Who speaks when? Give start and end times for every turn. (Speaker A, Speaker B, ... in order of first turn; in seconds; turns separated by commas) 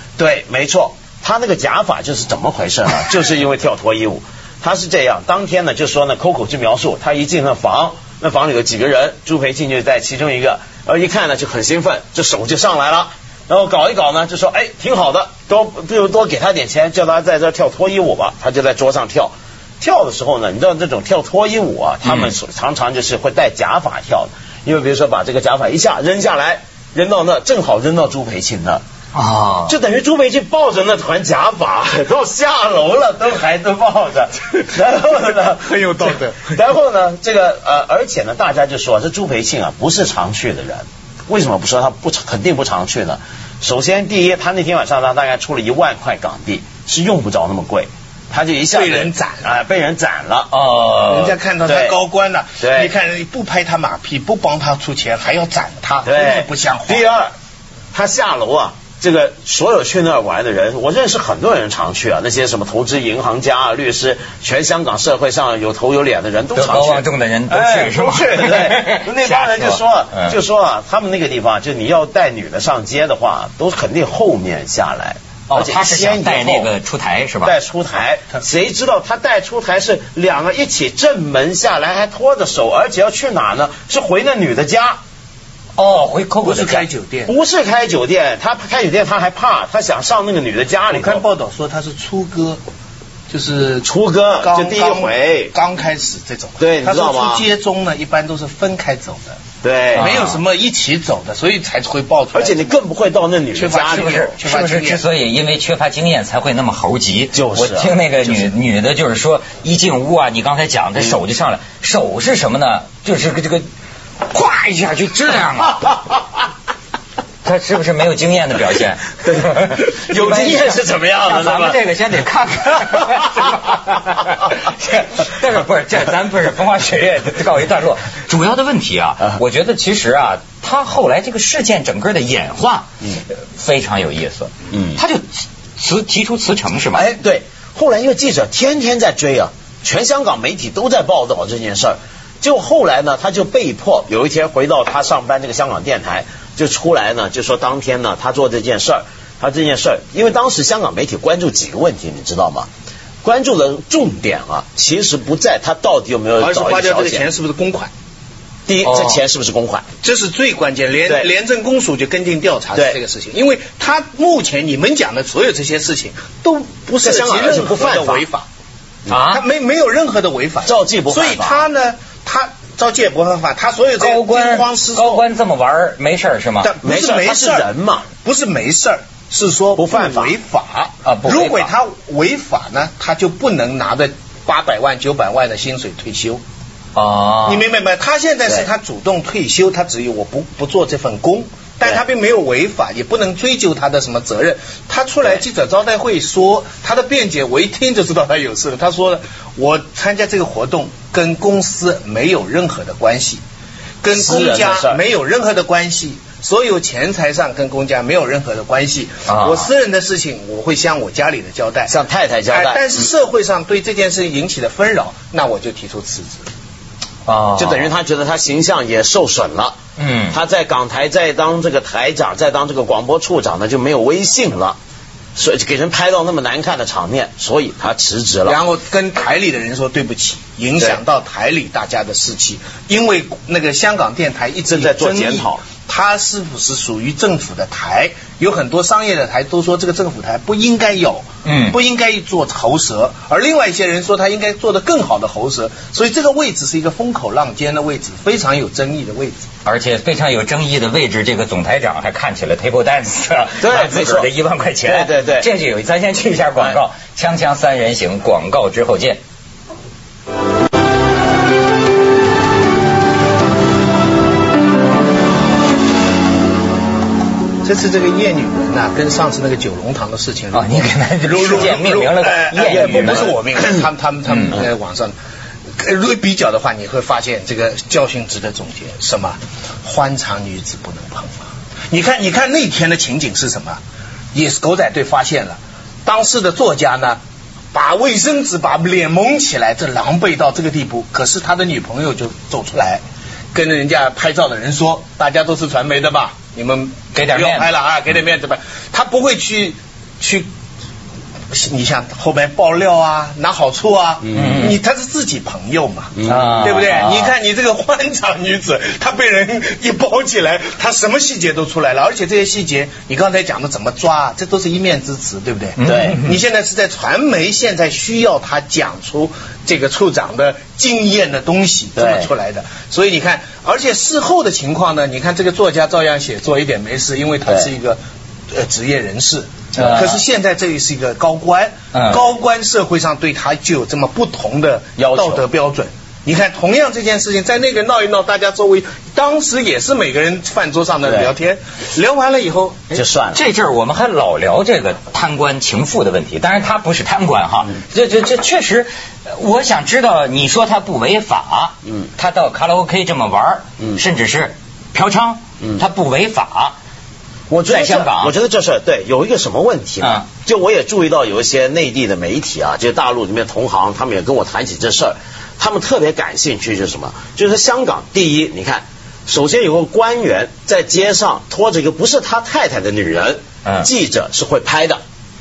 Speaker A: 0.2-28.8, Speaker B: 22.1-22.3, Speaker B: 29.1-29.8, Speaker A: 29.7-50.5, Speaker C: 35.7-36.5, Speaker C: 48.7-49.5, Speaker B: 50.5-51.4, Speaker C: 51.0-57.1, Speaker A: 51.6-52.0, Speaker A: 52.6-52.9, Speaker A: 56.0-57.3, Speaker A: 57.9-76.7, Speaker B: 66.5-70.3, Speaker B: 75.5-77.5, Speaker A: 77.4-85.0, Speaker B: 85.8-86.9, Speaker C: 86.4-87.3, Speaker A: 87.3-91.2, Speaker C: 90.9-92.6, Speaker C: 93.3-93.9, Speaker A: 93.8-95.5, Speaker C: 94.4-99.4, Speaker A: 96.6-97.5, Speaker A: 99.6-100.3, Speaker B: 99.9-100.4, Speaker C: 100.0-102.7, Speaker A: 102.3-104.3, Speaker C: 103.5-105.0, Speaker B: 103.7-113.6, Speaker A: 107.3-107.9, Speaker B: 114.3-116.0, Speaker B: 117.4-137.0, Speaker A: 119.3-121.8, Speaker A: 134.7-135.0, Speaker A: 136.9-152.7, Speaker A: 153.2-157.3, Speaker C: 156.4-157.9, Speaker A: 158.7-159.8, Speaker B: 158.8-159.2, Speaker C: 160.0-168.5, Speaker A: 167.0-168.2, Speaker B: 169.1-169.4, Speaker C: 169.3-175.2, Speaker A: 170.7-171.7, Speaker B: 174.0-176.7, Speaker C: 176.6-177.7, Speaker A: 176.8-178.1, Speaker C: 178.2-186.4, Speaker A: 179.8-180.3, Speaker B: 181.1-181.7, Speaker B: 186.9-187.7, Speaker C: 187.4-203.4, Speaker C: 204.0-211.9, Speaker A: 204.1-205.0, Speaker B: 209.3-209.7, Speaker A: 211.9-212.9, Speaker C: 212.5-216.5, Speaker B: 217.3-217.9, Speaker A: 217.6-219.8, Speaker B: 220.0-220.4, Speaker A: 220.3-224.8, Speaker A: 225.4-228.6, Speaker C: 228.4-249.4, Speaker A: 234.7-235.6, Speaker B: 241.4-241.8, Speaker B: 249.7-259.2, Speaker A: 253.6-254.3, Speaker A: 254.8-255.5, Speaker C: 267.6-275.2, Speaker B: 270.5-273.4, Speaker A: 272.6-273.9, Speaker B: 274.3-274.6, Speaker C: 275.8-283.8, Speaker C: 284.3-287.2, Speaker C: 287.7-293.0, Speaker C: 293.5-300.5, Speaker B: 297.1-297.7, Speaker C: 301.5-328.0, Speaker A: 304.2-304.7, Speaker B: 304.3-304.8, Speaker A: 306.2-306.7, Speaker B: 306.2-307.3, Speaker B: 315.8-316.4, Speaker A: 315.8-316.2, Speaker A: 322.0-322.3, Speaker C: 328.5-343.0, Speaker B: 329.8-330.2, Speaker B: 331.9-332.2, Speaker A: 335.0-335.4, Speaker A: 341.0-341.3, Speaker A: 342.9-343.4, Speaker B: 343.3-356.8, Speaker A: 357.5-375.0, Speaker B: 357.7-358.3, Speaker B: 360.0-360.3